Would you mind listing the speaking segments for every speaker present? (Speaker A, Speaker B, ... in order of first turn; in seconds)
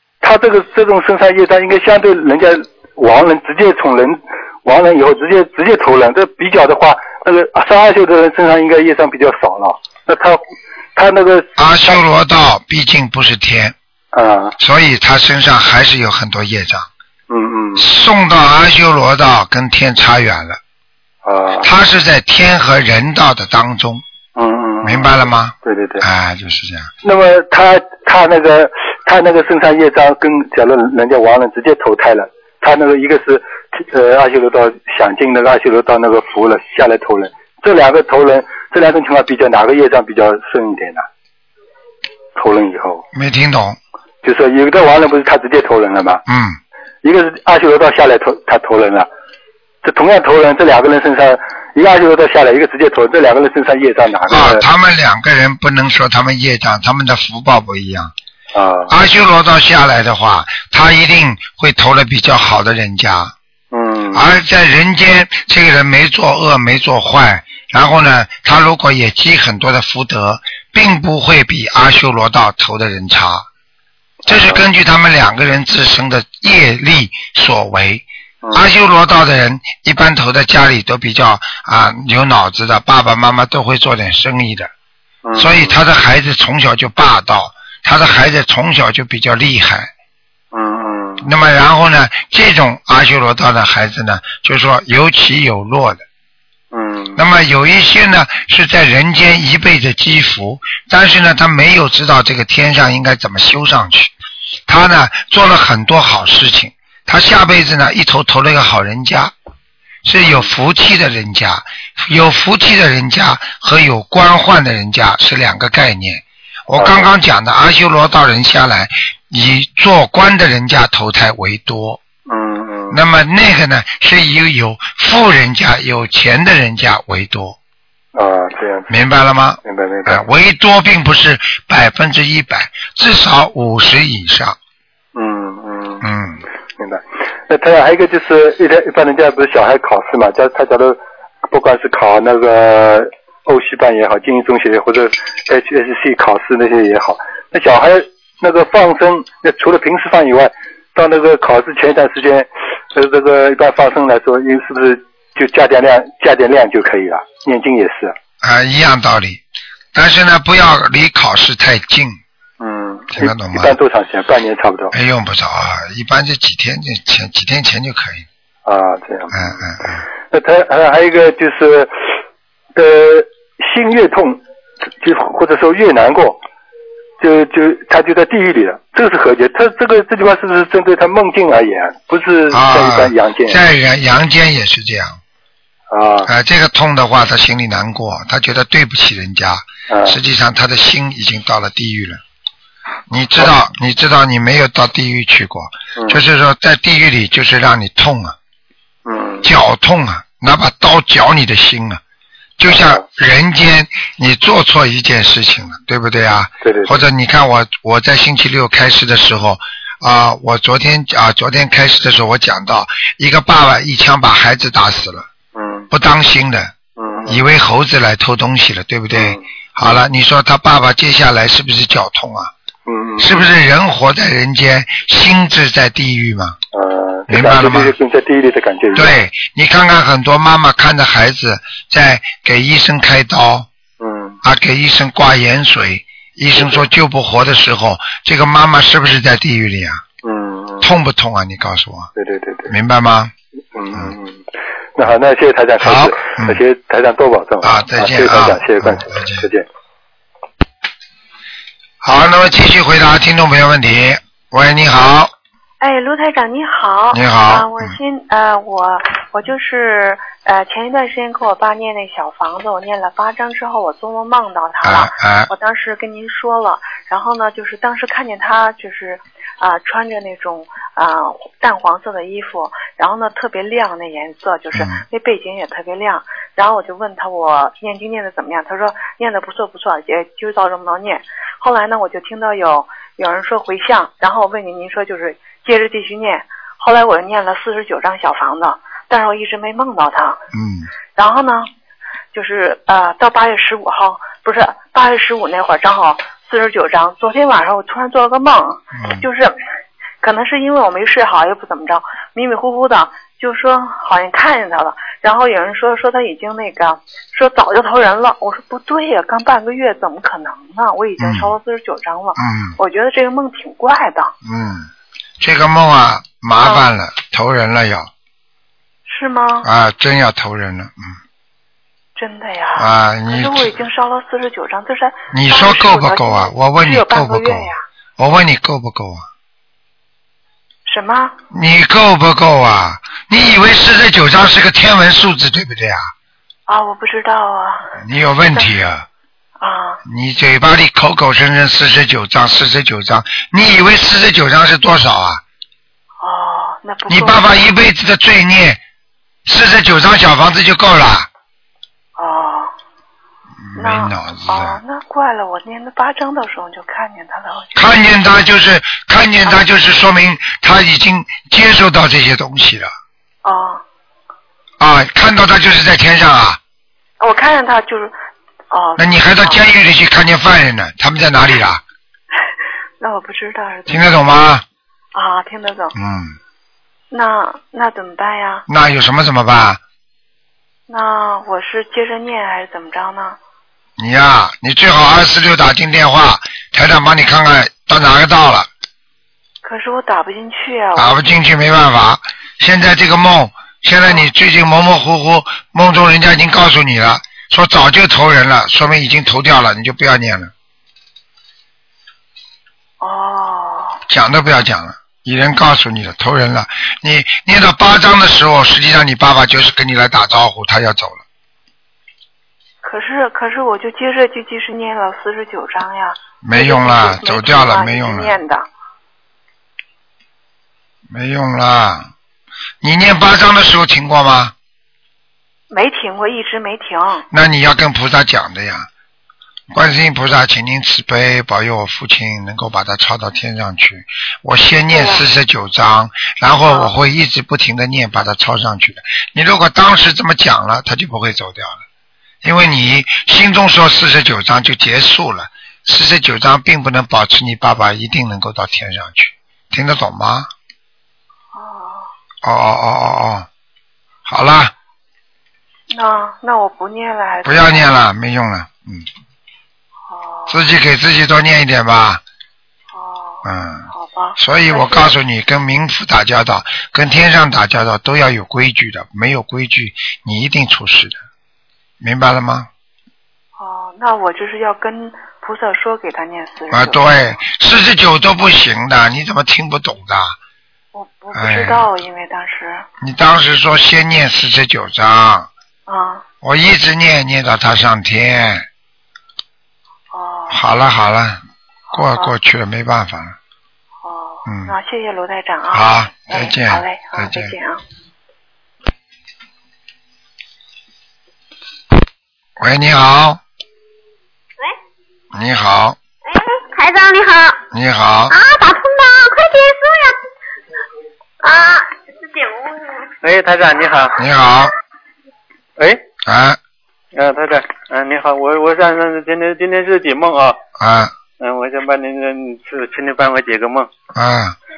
Speaker A: 0.2-10.4, 10.9-12.0, 14.1-14.6, 17.3-17.9, 21.2-21.7, 24.4-26.0, 27.0-41.1, 42.4-43.0, 44.2-46.2, 47.0-49.1, 49.8-54.6, 58.5-58.9, 63.7-64.2, 74.2-74.7, 85.2-85.8, 90.5-91.3, 96.7-97.2, 110.2-110.5, 116.8-117.1, 122.3-123.0, 128.1-128.9, 129.7-130.2, 135.2-136.0, 136.8-158.2, 162.6-164.9, 168.7-169.4, 170.3-172.1, 172.8-174.4, 175.0-176.4, 177.2-183.6, 185.9-186.3, 189.9-190.2, 199.1-199.5, 202.7-203.0, 206.6-207.0, 215.6-215.9, 217.0-217.4, 219.1-219.4, 222.9-223.4, 226.7-229.2, 234.0-234.4, 236.6-236.8, 240.2-240.9, 242.2-242.7, 243.7-244.4, 245.0-249.7
Speaker B: 11.6-13.8, 14.6-16.9, 17.8-20.6, 21.6-24.0, 24.8-26.9, 43.1-43.8, 46.3-46.6, 54.3-58.1, 58.9-63.3, 64.1-73.5, 74.3-84.7, 85.4-89.9, 91.2-96.0, 97.2-104.1, 104.7-109.3, 110.0-122.0, 122.9-127.6, 128.9-134.6, 136.0-136.4, 158.4-159.4, 159.9-162.2, 163.1-163.8, 164.9-168.3, 169.3-170.0, 182.5-185.2, 186.3-192.2, 193.1-198.4, 199.4-202.0, 202.6-215.3, 215.9-216.8, 217.3-222.5, 223.2-226.6, 227.3-227.9, 228.9-233.7, 234.4-240.0, 240.8-242.1, 242.7-243.3, 245.8-246.6, 247.6-249.5, 252.0-255.3, 257.1-257.9, 264.8-265.5, 274.7-275.0, 290.5-290.9, 299.0-299.2, 311.2-311.5, 312.4-312.8, 314.4-314.9, 315.4-318.1, 319.6-321.2, 322.8-323.8, 325.3-329.3, 331.5-336.1, 338.0-339.1, 340.1-345.4, 347.1-348.8, 349.5-351.3, 353.6-354.8, 357.8-362.9, 364.8-366.6, 369.0-371.8, 373.9-374.6, 376.0-376.4, 378.7-379.8, 384.0-388.7, 391.0-400.5, 404.1-411.2, 416.4-418.4, 421.1-422.1, 422.8-424.6, 427.3-428.9, 429.7-441.8, 442.4-450.5, 452.4-453.5, 454.3-454.7, 457.4-459.1, 460.5-462.2, 463.4-471.2, 472.0-472.7, 476.7-480.4, 481.4-481.9, 483.0-485.5, 486.4-488.7, 490.5-491.4, 491.9-493.4, 494.5-494.7, 495.7-497.5, 502.6-503.4, 505.3-506.0, 507.7-508.4, 514.2-514.7, 516.2-516.6, 520.8-521.1, 524.1-524.6
Speaker C: 255.8-290.4, 291.1-291.7, 292.3-299.6, 300.2-314.3, 316.6-316.9, 319.1-319.7, 322.2-327.8, 330.9-331.4, 336.7-338.0, 339.6-340.0, 346.2-347.6, 352.2-352.7, 353.8-358.0, 363.4-363.8, 367.2-368.1, 368.7-369.6, 373.0-374.1, 375.1-376.0, 377.1-378.7, 380.9-383.4, 389.6-391.4, 403.0-404.0, 412.8-418.7, 425.7-427.3, 434.9-435.2, 436.6-436.9, 451.5-452.1, 455.9-457.9, 460.1-460.7, 462.9-465.2, 473.6-477.4, 480.9-482.9, 485.9-486.2, 490.1-490.6, 491.9-492.3, 494.0-497.8
Speaker D: 506.3-507.6, 508.3-510.2, 511.4-512.8
Speaker E: 513.2-514.2, 515.8-516.0, 517.1-520.6, 521.4-523.9